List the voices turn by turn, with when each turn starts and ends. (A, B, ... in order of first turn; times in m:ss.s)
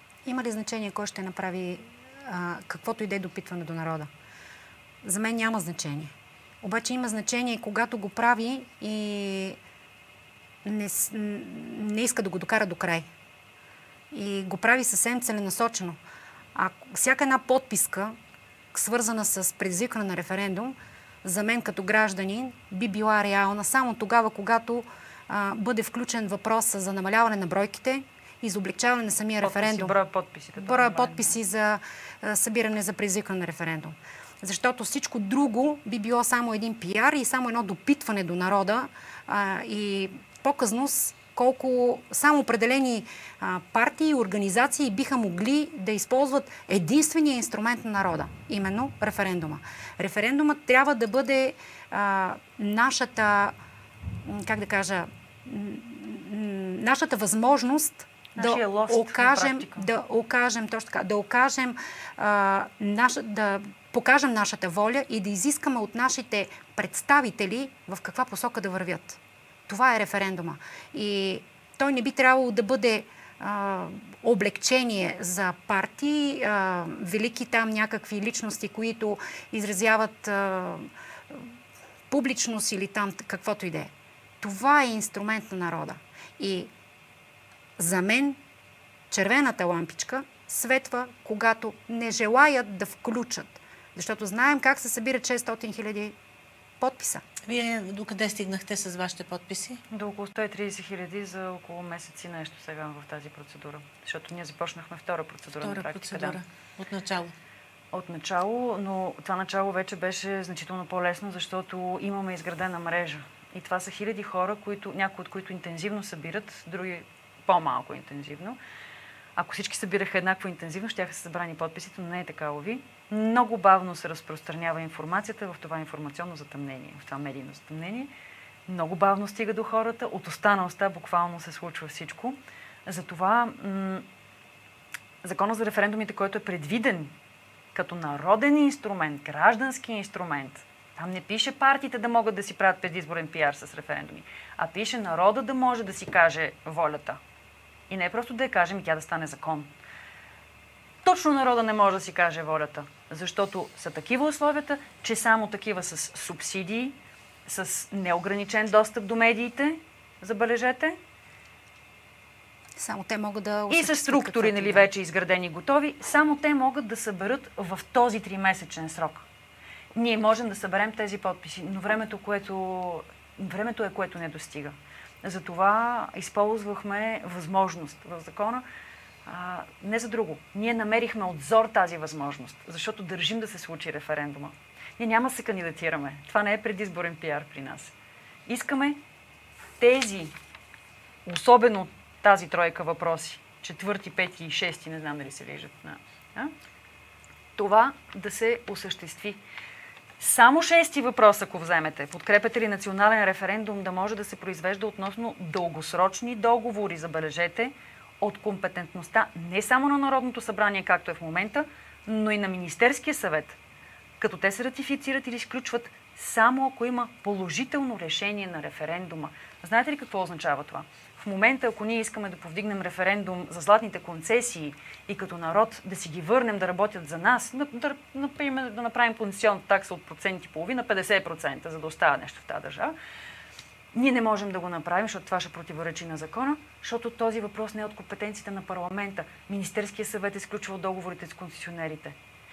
0:00.2-0:04.1 A
0:05.0-0:09.6 A
0:10.6-0:13.1 A
0:14.1-0:16.0 A
0:16.5-0:18.2 A
0:18.7-0:30.0 A
0:29.4-0:31.4 B
0:30.6-0:53.5 A
0:54.2-1:21.5 A
0:58.3-0:59.9 B
1:22.1-1:26.7 A
1:27.8-1:28.4 A
1:29.1-1:36.1 A
1:36.8-1:37.2 A
1:37.4-1:39.8 C
1:39.9-1:46.4 B
1:45.6-1:47.3 C
1:47.9-1:58.6 B
1:59.4-2:08.1 B
2:08.7-2:14.0 B
2:15.2-2:17.1 B
2:17.7-2:27.2 B
2:27.9-2:29.7 B
2:31.0-2:41.0 B
2:42.8-2:44.9 A
2:43.7-2:49.2 B
2:49.9-2:58.6 B
2:59.2-3:07.9 B
3:08.5-3:09.0 B
3:09.8-3:10.3 B
3:11.2-3:16.5 B
3:17.6-3:19.4 B
3:20.2-3:33.6 B
3:34.2-3:52.9 B
3:53.9-4:02.2 B